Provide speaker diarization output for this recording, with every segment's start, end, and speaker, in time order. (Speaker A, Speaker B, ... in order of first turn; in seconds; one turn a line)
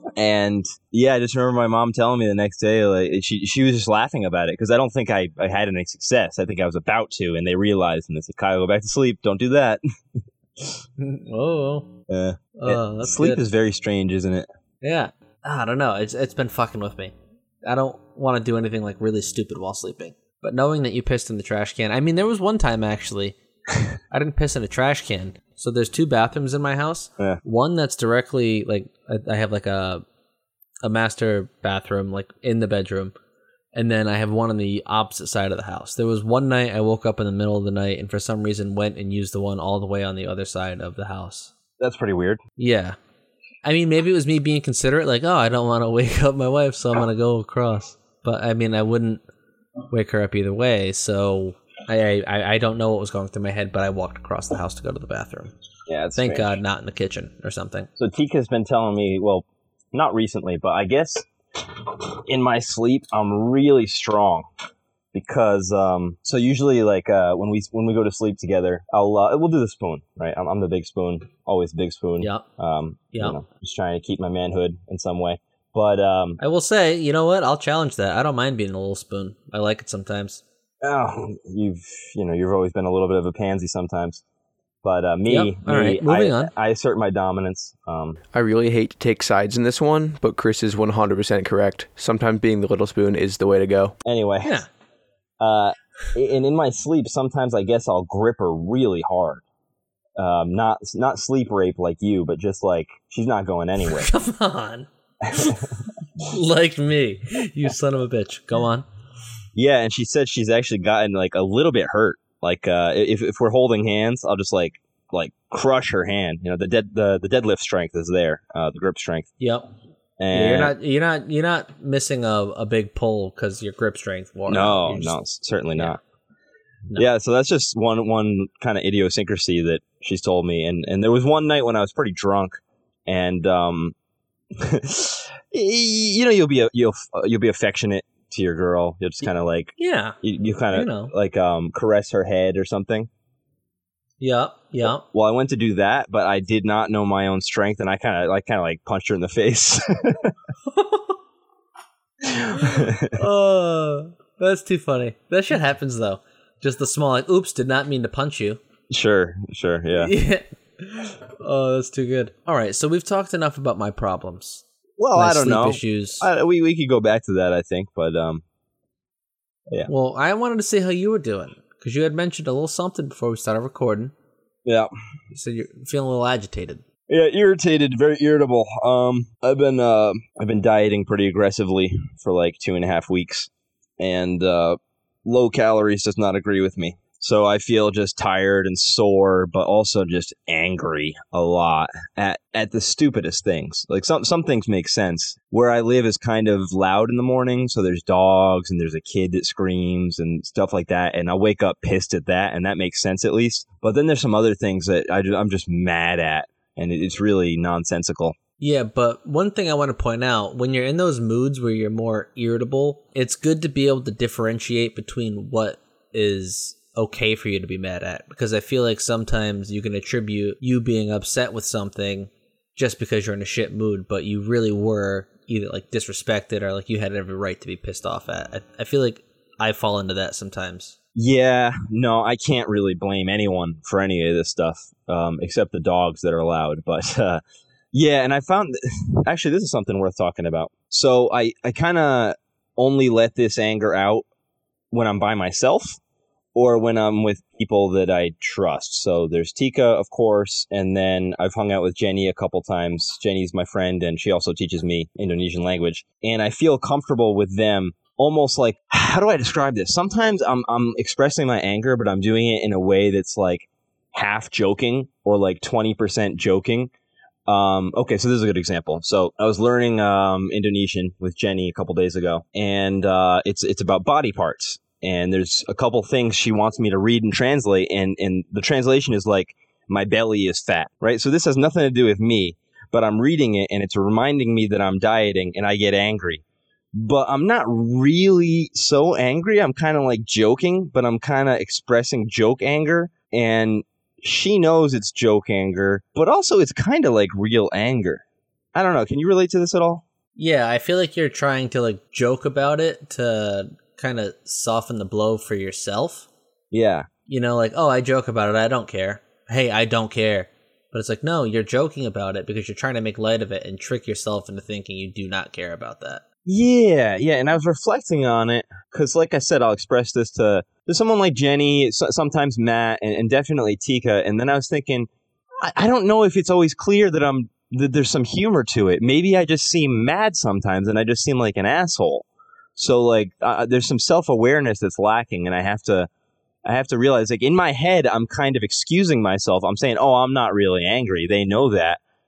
Speaker A: 0.2-9.8
Speaker B: 11.0-11.9
Speaker A: 12.1-14.5
Speaker B: 12.6-13.4
Speaker B: 14.8-23.4
Speaker B: 24.1-30.0
Speaker B: 30.8-33.1
Speaker B: 33.7-41.5
Speaker A: 41.8-42.4
Speaker B: 42.6-43.0
Speaker B: 43.6-49.2
Speaker B: 49.9-55.5
Speaker A: 55.9-56.6
Speaker B: 56.2-57.9
Speaker A: 58.0-64.5
Speaker A: 65.1-76.4
Speaker B: 73.1-73.4
Speaker B: 76.4-80.4
Speaker A: 80.8-84.2
Speaker A: 84.8-88.2
Speaker B: 85.3-86.5
Speaker C: 88.3-94.0
Speaker A: 94.0-94.6
Speaker A: 95.4-99.4
Speaker A: 100.2-104.1
Speaker B: 103.8-105.7
Speaker A: 105.4-105.7
Speaker B: 106.3-108.9
Speaker A: 109.5-119.3
Speaker B: 119.4-119.7
Speaker A: 120.2-120.7
Speaker B: 120.3-125.2
Speaker A: 124.5-126.0
Speaker A: 127.0-133.9
Speaker A: 134.5-143.1
Speaker B: 139.8-140.2
Speaker B: 140.7-141.1
Speaker B: 144.2-145.0
Speaker A: 145.0-150.3
Speaker B: 150.7-151.1
Speaker A: 152.2-153.2
Speaker B: 152.6-158.6
Speaker A: 158.9-160.1
Speaker B: 159.9-164.6
Speaker A: 165.0-168.4
Speaker B: 165.2-166.3
Speaker B: 169.9-174.1
Speaker A: 174.7-174.9
Speaker B: 175.3-176.8
Speaker A: 177.1-208.4
Speaker B: 208.6-231.0
Speaker A: 231.2-244.3
Speaker A: 244.9-246.0
Speaker A: 246.6-266.9
Speaker A: 267.5-286.4
Speaker A: 286.9-298.2
Speaker A: 298.8-300.0
Speaker B: 300.4-306.3
Speaker A: 306.7-307.1
Speaker B: 307.3-316.2
Speaker A: 316.5-325.1
Speaker A: 325.6-336.1
Speaker A: 336.6-342.0